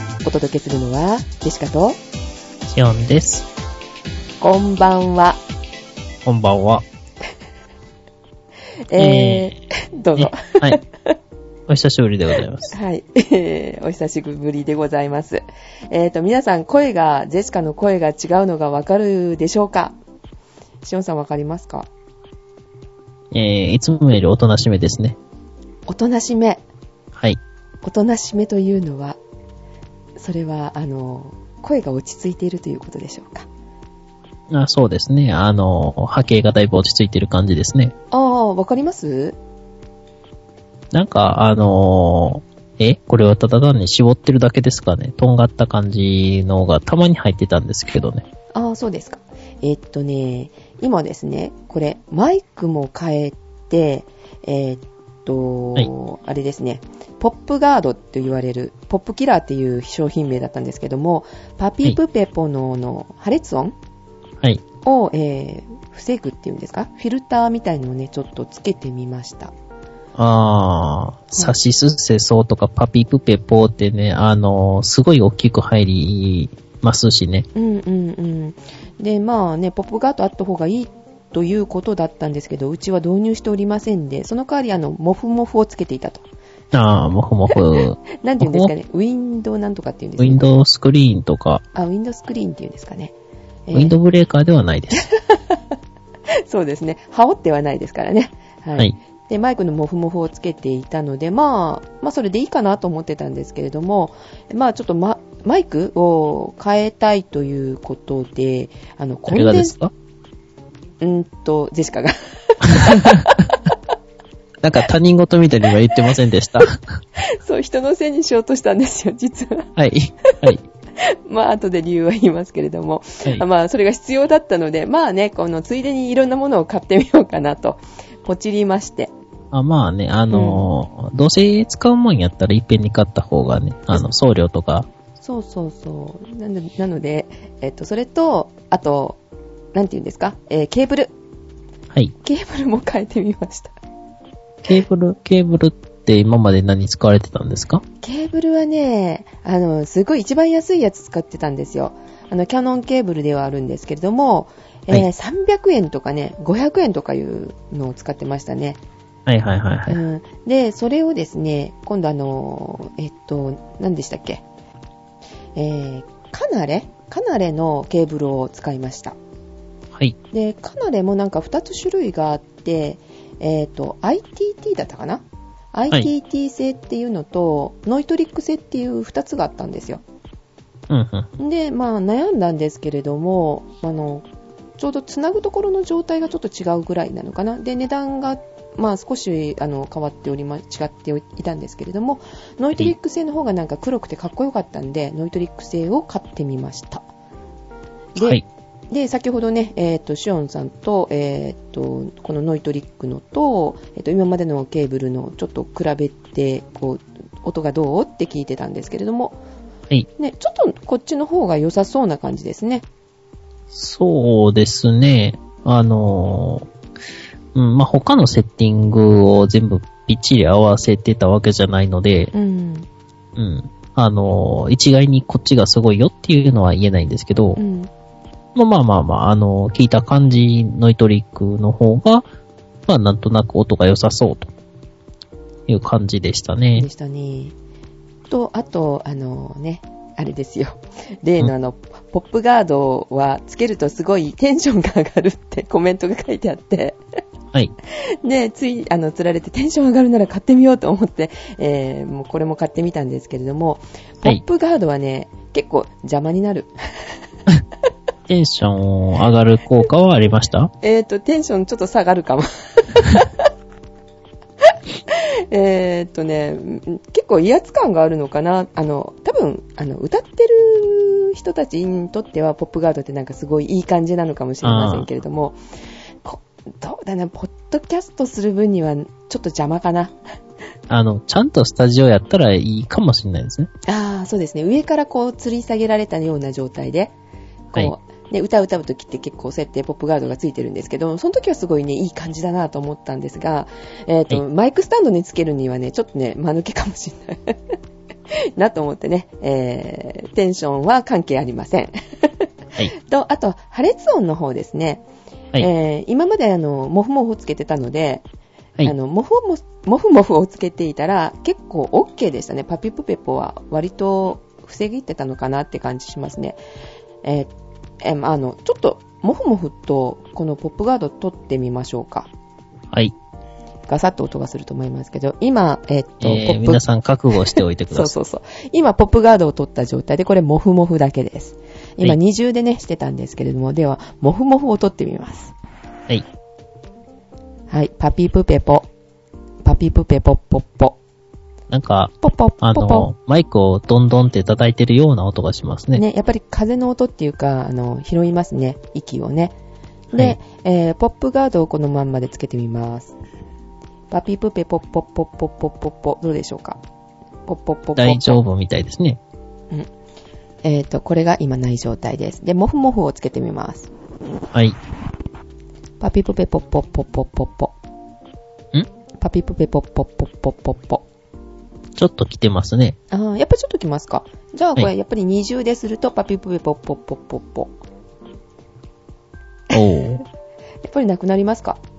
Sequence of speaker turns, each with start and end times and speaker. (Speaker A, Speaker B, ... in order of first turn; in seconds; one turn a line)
Speaker A: 0.2-2.0
Speaker B: 2.7-3.5
Speaker A: 4.4-5.4
Speaker B: 6.2-6.8
Speaker A: 8.9-11.1
Speaker B: 9.0-9.5
Speaker B: 10.2-10.8
Speaker B: 11.7-12.7
Speaker A: 12.7-20.0
Speaker A: 20.8-21.9
Speaker B: 23.3-25.2
Speaker A: 25.9-26.6
Speaker B: 27.1-27.4
Speaker A: 27.8-29.2
Speaker A: 30.2-33.5
Speaker B: 34.5-37.9
Speaker A: 38.1-39.4
Speaker B: 40.9-48.2
Speaker A: 48.5-63.7
Speaker A: 64.8-69.5
Speaker B: 70.2-77.5
Speaker A: 77.5-86.2
Speaker B: 86.7-88.7
Speaker A: 88.2-90.5
Speaker B: 90.2-91.6
Speaker A: 91.7-93.1
Speaker A: 93.7-93.9
Speaker B: 93.7-95.0
Speaker A: 95.0-95.6
Speaker A: 96.5-109.7
Speaker B: 109.3-109.9
Speaker A: 111.0-113.7
Speaker B: 112.7-113.3
Speaker B: 114.6-116.8
Speaker A: 117.2-119.7
Speaker B: 119.8-120.6
Speaker A: 121.2-129.1
Speaker B: 129.5-134.9
Speaker A: 130.3-130.7
Speaker A: 135.2-139.2
Speaker A: 139.7-141.1
Speaker A: 142.2-143.7
Speaker B: 144.7-147.8
Speaker A: 148.0-158.8
Speaker B: 159.3-160.0
Speaker A: 159.9-164.4
Speaker A: 165.6-169.2
Speaker A: 170.3-180.0
Speaker B: 180.9-181.3
Speaker A: 181.4-184.2
Speaker A: 184.8-197.1
Speaker B: 198.2-198.4
Speaker A: 198.9-209.4
Speaker A: 210.2-212.8
Speaker B: 213.7-216.7
Speaker B: 217.5-222.3
Speaker A: 222.3-222.9
Speaker B: 223.3-227.6
Speaker A: 227.6-227.9
Speaker B: 228.5-232.2
Speaker B: 232.9-234.5
Speaker B: 235.7-236.9
Speaker A: 236.7-237.5
Speaker A: 238.3-247.0
Speaker A: 248.2-256.7
Speaker B: 258.3-260.7
Speaker A: 260.8-263.4
Speaker A: 265.1-275.6
Speaker B: 274.6-275.1
Speaker A: 276.2-280.1
Speaker B: 280.9-283.7
Speaker A: 283.9-287.1
Speaker A: 287.7-297.5
Speaker A: 298.6-305.0
Speaker A: 305.6-308.2
Speaker A: 308.8-316.6
Speaker A: 317.2-317.5
Speaker A: 318.0-322.3
Speaker A: 323.9-326.8
Speaker B: 326.2-328.1
Speaker A: 327.5-335.5
Speaker A: 337.7-338.9
Speaker A: 339.6-341.0
Speaker B: 341.7-346.0
Speaker A: 342.2-343.1
Speaker A: 345.9-349.5
Speaker A: 350.1-353.1
Speaker A: 354.1-356.8
Speaker A: 357.5-358.4
Speaker B: 358.0-359.2
Speaker A: 360.6-363.9
Speaker A: 366.0-367.7
Speaker A: 369.2-371.0
Speaker B: 371.9-373.0
Speaker A: 373.1-377.7
Speaker B: 379.7-380.2
Speaker A: 380.8-381.8